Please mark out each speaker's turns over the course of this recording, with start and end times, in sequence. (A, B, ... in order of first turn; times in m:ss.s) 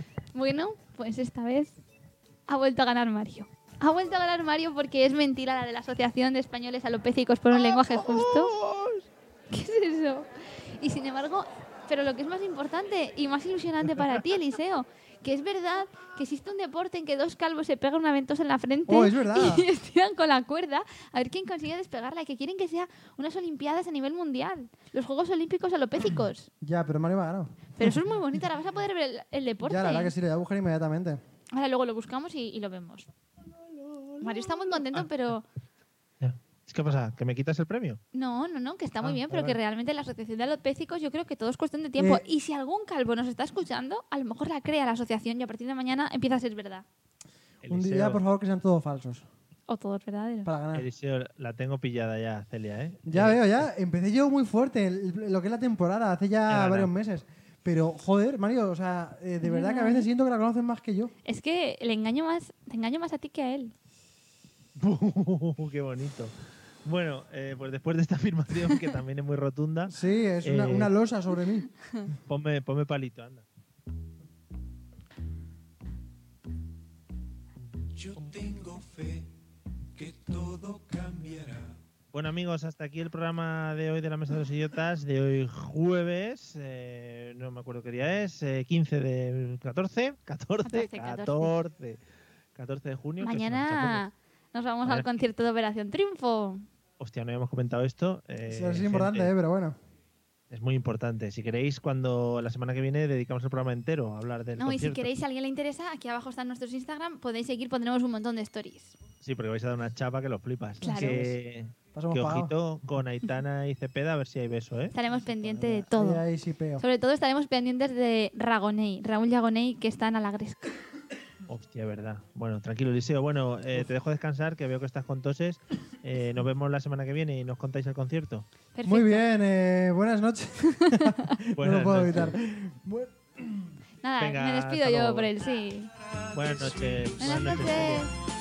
0:00.3-0:01.7 A
0:02.5-0:08.5 A
0:07.5-0:09.0 B
0:09.5-0:26.5 A
0:18.9-0:19.7 C
0:26.6-0:27.7 C
0:27.8-0:30.1 A
0:29.6-0:31.2 C
0:31.5-0:33.1 A
0:33.5-0:35.1 B
0:34.2-0:35.5 A
0:36.2-0:38.0 B
0:38.1-0:46.8 A
0:39.0-0:39.6 B
0:42.0-0:42.2 C
0:47.6-0:48.2 B
0:47.6-0:49.3 C
0:49.7-0:50.5 A
0:50.4-0:50.9 C
0:50.7-0:53.7 B
0:53.1-1:01.1 C
0:56.5-0:56.9 B
0:59.4-1:00.1 A
1:01.2-1:03.7 A
1:04.8-1:06.3 B
1:06.8-1:10.9 B
1:09.9-1:11.7 C
1:12.3-1:13.5 B
1:17.9-1:19.3 D
1:20.0-1:21.8 D
1:22.1-1:32.0 B
1:30.7-1:31.6 A
1:32.6-1:34.0 B
1:33.2-1:36.6 A
1:37.0-1:39.3 B
1:38.5-1:39.8 C
1:40.5-1:45.1 B
1:44.6-1:49.0 A
1:49.2-1:54.9 B
1:50.8-1:51.2 A
1:50.9-1:51.4 C
1:52.0-1:52.5 C
1:54.9-1:56.2 A
1:55.4-1:56.8 C
1:56.8-2:00.7 A
2:01.5-2:08.5 B
2:08.7-2:09.3 A
2:08.8-2:13.7 C
2:10.7-2:11.2 A
2:11.6-2:12.4 B
2:14.0-2:15.9 A
2:14.2-2:15.3 B
2:15.9-2:17.9 D
2:16.3-2:18.1 B
2:17.2-2:18.1 A